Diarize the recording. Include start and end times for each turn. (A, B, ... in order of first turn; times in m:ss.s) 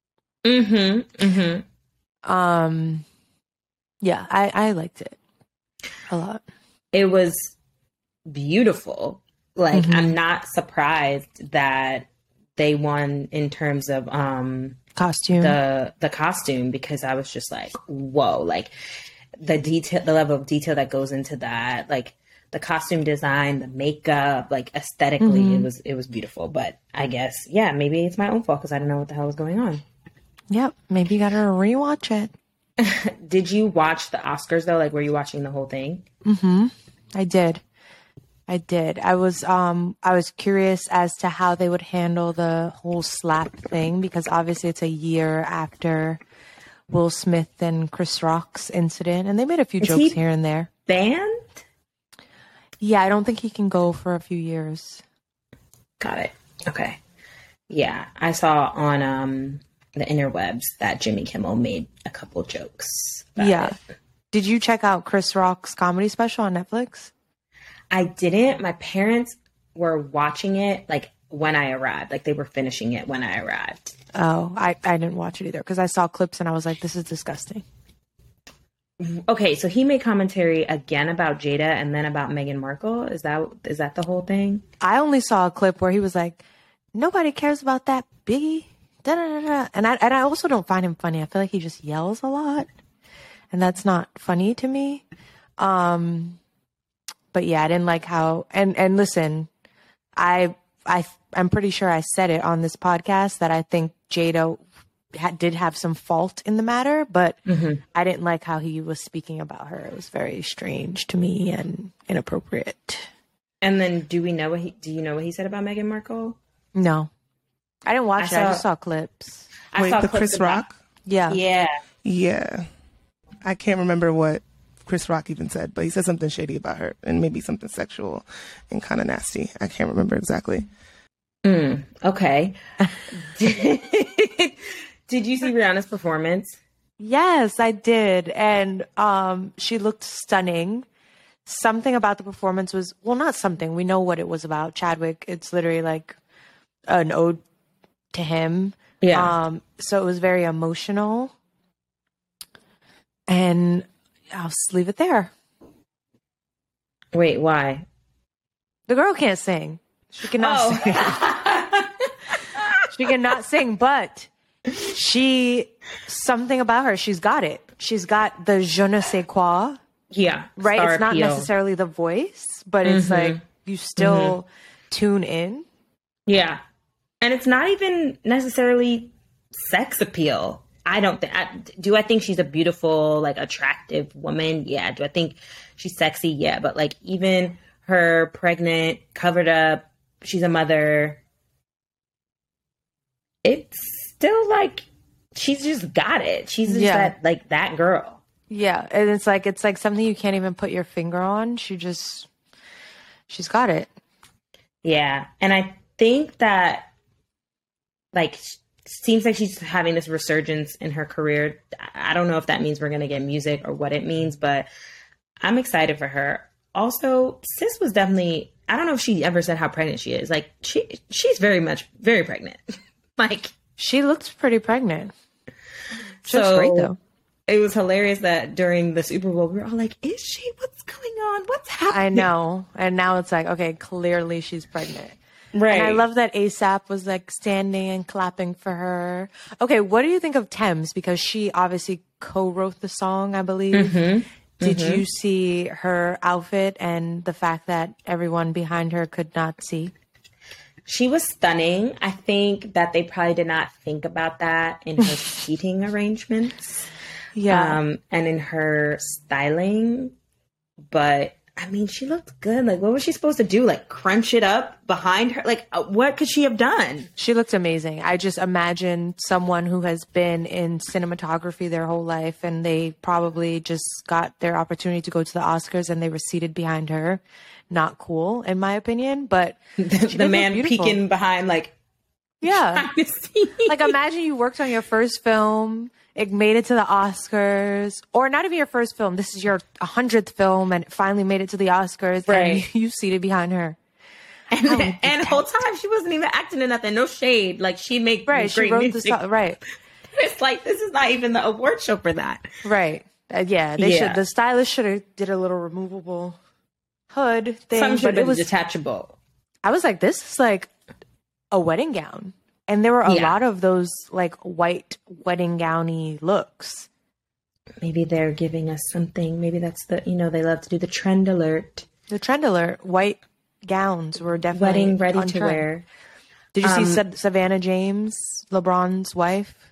0:00.4-0:01.6 A
0:02.2-0:03.0 B
0:04.0-0:05.2 B
0:06.1-0:06.4 B
0:06.9-0:07.5 A
0:08.3-0:14.8 A
0:09.7-0:10.2 B
0:15.0-0:15.6 B
0:15.4-0:18.7 A
0:19.4-0:29.8 A
0:25.2-0:25.7 B
0:30.5-0:32.3 B
0:32.8-0:36.0 A
0:36.2-0:37.6 B
0:38.5-0:46.2 B
0:46.9-0:50.7 B
0:49.8-0:50.2 A
0:50.9-0:51.5 A
0:52.8-0:55.0 B
0:56.0-0:57.0 A
0:57.7-1:03.8 A
1:03.4-1:03.8 B
1:04.3-1:07.1 B
1:07.9-1:13.9 A
1:14.1-1:17.6 B
1:19.0-1:24.6 A
1:24.8-1:26.4 B
1:26.9-1:32.7 B
1:33.5-1:35.0 B
1:35.6-1:36.4 B
1:37.3-1:39.5 B
1:40.2-1:44.6 B
1:45.1-1:47.4 B
1:47.5-1:47.8 A
1:47.9-1:53.1 B
1:53.6-1:56.4 A
1:56.7-1:57.1 B
1:57.8-1:59.5 B
1:58.2-1:58.6 A
1:59.7-2:00.7 A
1:59.8-2:00.8 C
2:01.0-2:01.4 B
2:01.3-2:01.8 A
2:02.0-2:02.6 C
2:03.4-2:10.6 C
2:11.4-2:16.6 A
2:17.0-2:20.8 B
2:21.4-2:26.2 B
2:26.9-2:27.4 B
2:28.1-2:31.3 B
2:29.0-2:29.3 A
2:33.3-2:35.3 B
2:37.1-2:37.8 A
2:38.9-2:41.2 B
2:40.4-2:42.6 A
2:42.9-2:44.3 B
2:44.8-2:49.8 B
2:50.1-2:51.5 A
2:50.6-2:55.6 B
2:52.8-2:53.4 A
2:54.0-2:54.4 A
2:56.3-2:56.6 A
2:57.2-3:11.2 A
3:13.4-3:18.2 A
3:16.7-3:17.1 B
3:18.5-3:22.3 B
3:23.3-3:23.9 B
3:24.8-3:26.9 A
3:28.1-3:34.7 A
3:35.4-3:43.5 A
3:43.8-3:45.1 B
3:46.2-3:46.9 A
3:46.2-3:47.0 B
3:47.5-3:52.3 A
3:51.9-3:55.2 B
3:55.5-3:56.0 A
3:55.7-4:03.9 B
4:03.7-4:05.0 A
4:04.6-4:09.9 B
4:10.8-4:16.8 A
4:17.3-4:17.8 B
4:17.5-4:20.1 A
4:20.9-4:27.1 A
4:27.2-4:41.0 B
4:39.8-4:41.7 A
4:42.4-4:42.9 B
4:42.4-4:43.9 A
4:43.6-4:53.8 B
4:52.3-4:52.6 A
4:54.5-4:59.2 A
4:54.6-4:55.4 B
4:58.3-4:59.6 B
5:00.1-5:02.5 A
5:02.6-5:06.4 B
5:03.8-5:04.2 A
5:07.1-5:08.5 B
5:07.7-5:09.2 A
5:09.6-5:10.7 B
5:11.5-5:16.9 B
5:13.0-5:13.4 A
5:17.8-5:21.8 A
5:22.1-5:25.7 B
5:24.5-5:25.8 A
5:26.5-5:29.6 B
5:26.6-5:27.0 A